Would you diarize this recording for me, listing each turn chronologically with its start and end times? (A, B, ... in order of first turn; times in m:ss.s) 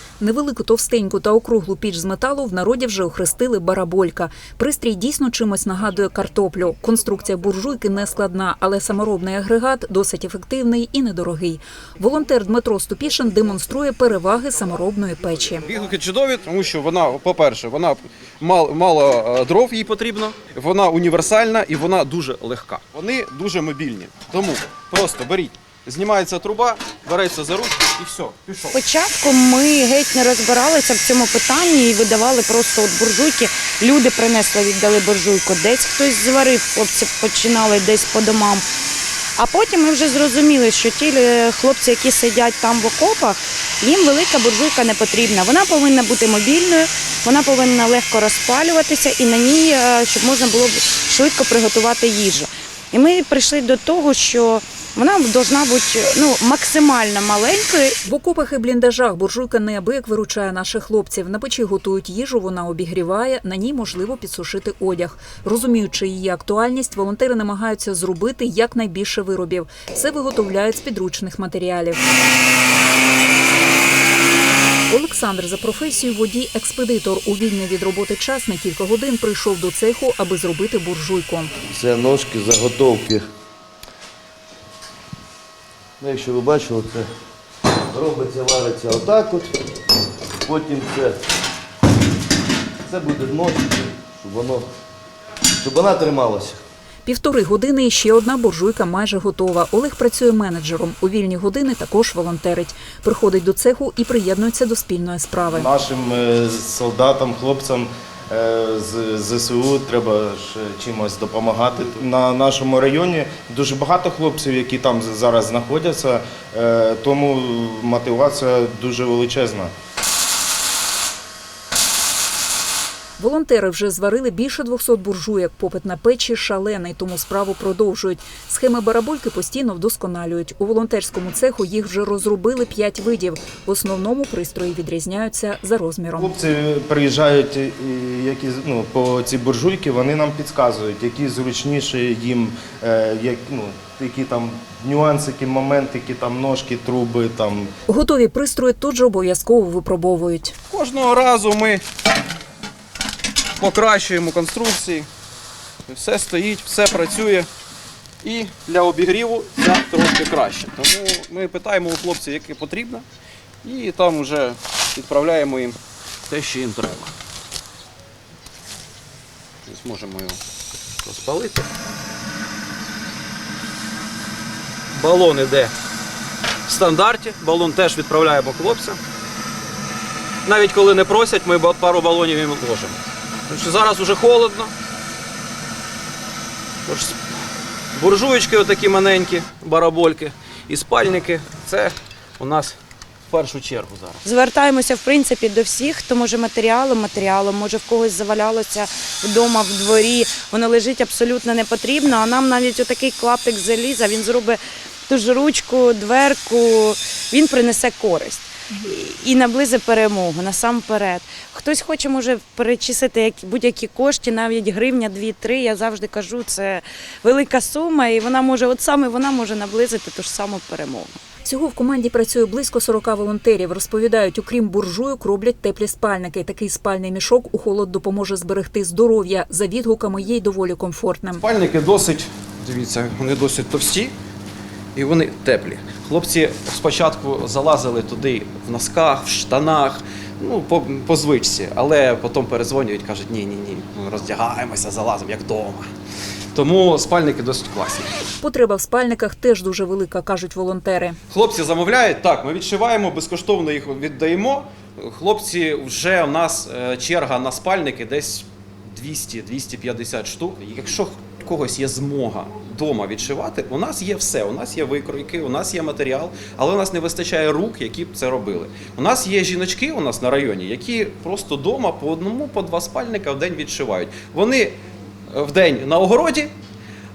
0:00.2-0:15.6 A
0:15.7-0:28.8 B
0:28.7-0:38.7 C
0:39.4-0:58.0 C
0:58.1-1:12.0 A
1:14.9-1:21.5 A
1:21.6-1:23.2 D
1:26.0-1:27.1 D
1:27.9-1:29.6 D
1:30.4-1:31.2 D
1:32.8-1:34.7 D
1:35.6-1:36.6 D
1:37.0-1:45.7 A
1:45.5-1:59.7 E
2:03.2-2:16.3 A
2:16.2-2:27.7 E
2:27.9-2:30.5 A
2:30.7-2:31.8 B
2:33.6-2:35.1 B
2:35.9-2:37.5 B
2:38.2-2:43.0 B
2:43.6-2:47.1 B
2:49.7-2:50.4 B
2:51.0-2:51.7 B
2:54.9-2:55.7 B
2:56.7-2:59.0 B
3:00.5-3:04.7 B
3:06.9-3:07.2 B
3:08.0-3:12.8 B
3:13.3-3:14.2 B
3:14.2-3:41.2 C
3:41.4-3:51.4 A
3:51.4-3:54.1 B
3:55.0-4:05.9 B
4:06.5-4:08.2 B
4:08.4-4:11.2 A
4:11.3-4:34.8 B
4:35.3-4:36.5 B